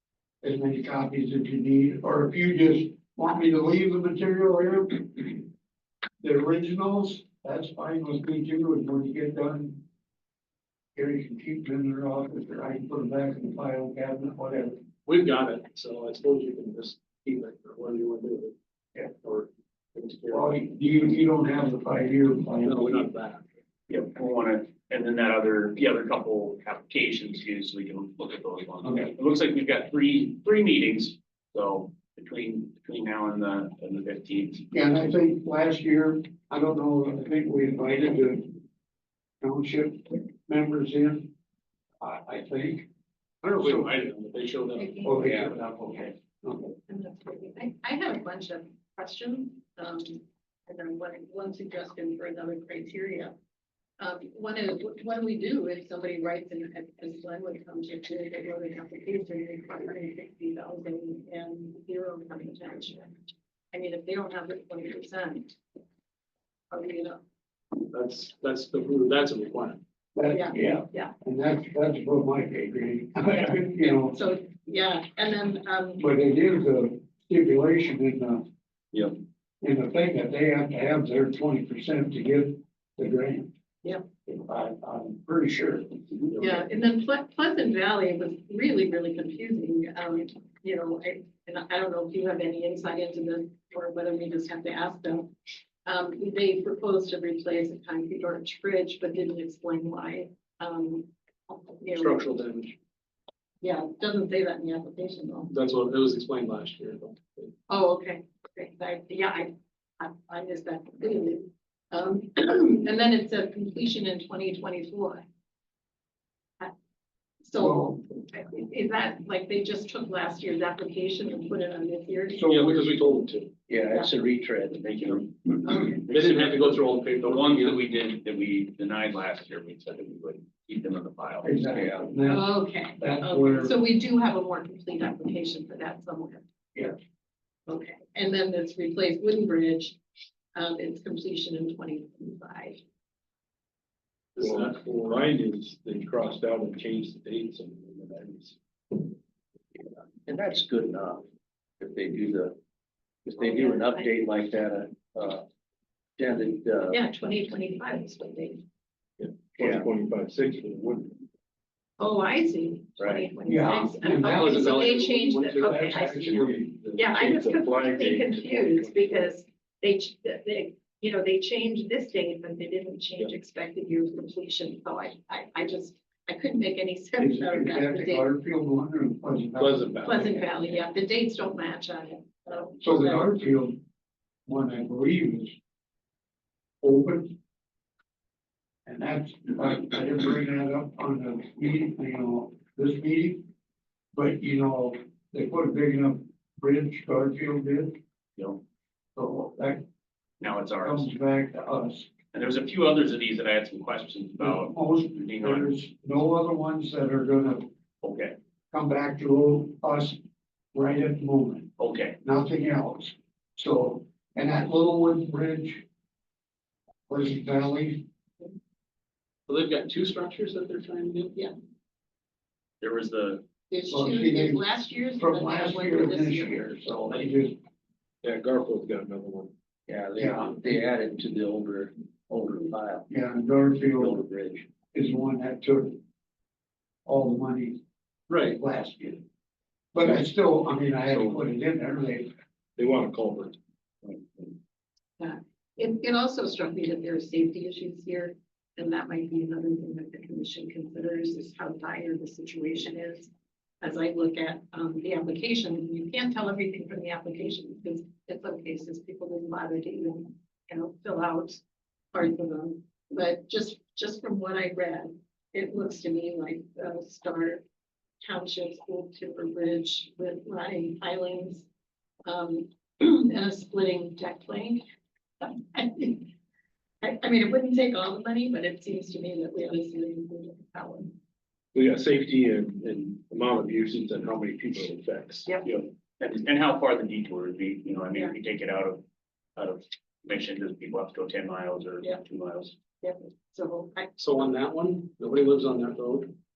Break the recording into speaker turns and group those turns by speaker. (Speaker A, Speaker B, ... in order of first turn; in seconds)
Speaker A: 0.4-5.4, 6.2-9.8, 10.9-14.8, 20.3-23.1, 34.7-38.6, 39.4-41.3, 42.0-42.9, 43.5-43.9, 45.0-46.7, 70.2-74.2, 76.0-78.4, 79.6-83.5, 84.2-86.6, 117.5-118.0, 122.3-123.1, 131.4-133.8, 163.4-165.1, 165.6-166.7, 177.2-180.3, 182.8-183.8, 184.5-185.5, 186.8-187.3, 188.8-193.4, 194.1-198.0, 199.2-199.8, 200.8-202.1, 204.4-207.7, 208.7-210.2, 210.7-211.7, 212.2-215.8, 217.1-218.0, 223.9-224.7, 225.2-227.6, 230.2-230.6, 233.1-234.2, 234.9-236.0, 237.1-237.8, 238.5-239.2, 239.9-242.3
Speaker B: 15.1-18.5, 19.1-20.6, 22.6-23.4, 43.4-45.5, 67.9-69.8, 101.9-102.7, 105.5-107.5, 122.7-123.3, 126.1-127.8, 144.4-144.7, 164.3-166.5, 219.5-221.3, 238.3-238.6, 294.2-296.3
Speaker C: 23.9-34.6, 126.1-132.0, 198.3-198.6, 200.4-201.1, 202.3-205.7, 208.0-208.3, 211.8-212.2, 222.8-223.4, 285.6-289.0, 289.6-292.8
Speaker D: 44.8-45.5, 46.9-53.3, 54.0-63.1, 63.7-65.6, 66.7-67.2, 70.3-71.1, 74.1-76.0, 86.4-95.3, 95.8-102.2, 103.6-105.5, 107.7-115.2, 117.4-122.6, 132.2-136.4, 137.7-140.0, 140.5-142.8, 153.4-154.1, 156.9-158.6, 162.0-178.3, 180.0-183.3, 223.7-226.7, 245.2-253.3, 253.8-261.6, 262.1-267.6, 268.2-271.6, 272.2-274.8, 275.4-276.3, 277.0-281.1, 293.0-294.2
Speaker E: 122.5-122.8, 144.4-148.6, 159.2-161.2, 166.3-169.1, 179.6-180.3, 228.2-229.5, 241.1-241.4, 242.8-243.6, 281.7-285.5
Speaker F: 123.7-126.2, 150.3-151.2, 151.8-152.6, 153.2-155.4, 156.2-157.0, 159.6-159.8, 163.0-163.3, 229.9-233.1, 234.0-234.7